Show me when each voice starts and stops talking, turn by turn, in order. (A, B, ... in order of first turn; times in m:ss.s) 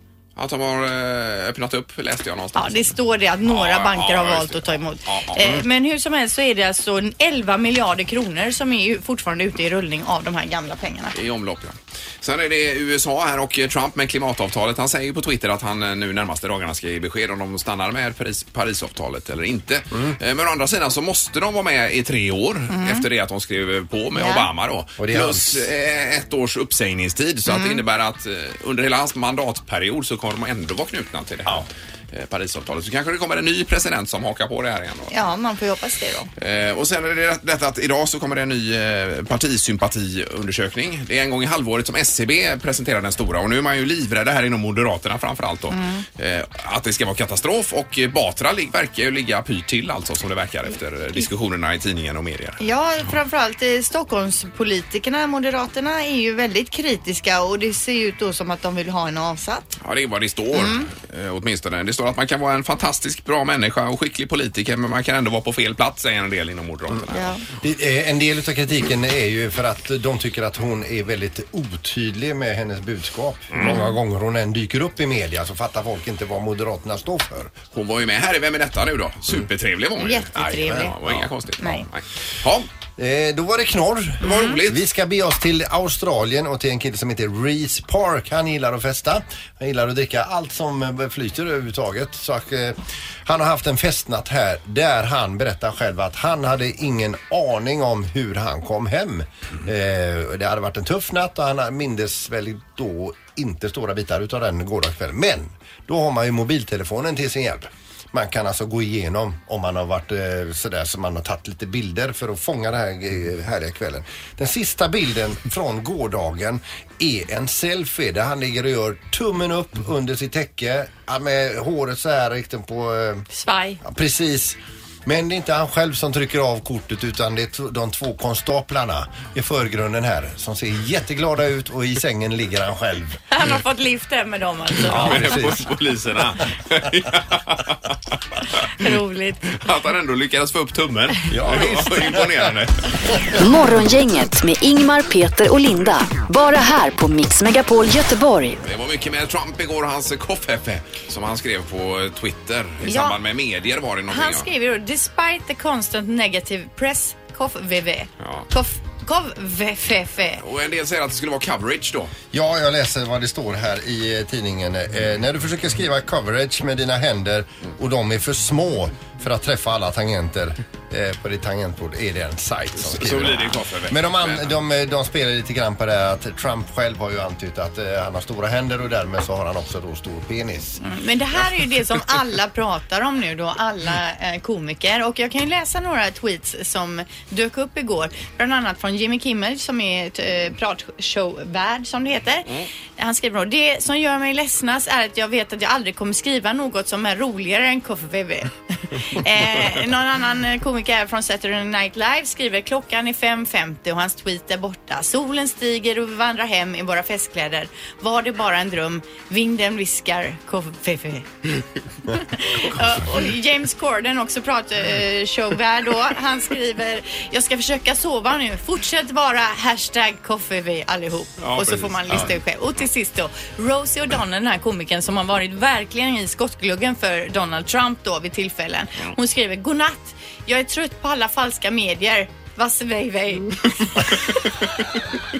0:00.4-0:05.6 A
0:02.6-0:11.1 B
0:11.1-0:35.1 A
0:22.7-0:23.0 B
0:24.1-0:24.5 B
0:25.0-0:25.7 C
0:27.5-0:27.8 B
0:35.1-0:36.3 B
0:36.4-0:52.6 A
0:45.7-0:46.0 B
0:52.6-0:59.8 B
0:59.8-1:07.4 A
1:00.5-1:00.9 B
1:07.1-1:07.4 B
1:07.6-1:17.5 C
1:13.6-1:13.9 B
1:17.7-1:22.7 A
1:20.0-1:21.0 B
1:21.6-1:21.9 B
1:23.0-2:03.2 C
1:24.2-1:24.8 A
2:03.3-2:03.8 B
2:03.8-2:13.2 C
2:13.3-2:15.4 B
2:14.8-2:17.9 A
2:14.9-2:15.7 C
2:18.8-2:19.5 B
2:19.5-2:23.2 A
2:21.3-2:22.5 C
2:23.4-2:28.6 D
2:28.6-2:34.5 A
2:32.8-2:33.2 B
2:34.1-2:40.4 B
2:38.2-2:38.5 A
2:40.4-2:42.1 A
2:42.3-3:00.8 C
2:52.8-2:54.5 A
3:00.8-3:31.3 B
3:32.1-3:54.5 B
3:41.4-3:42.3 A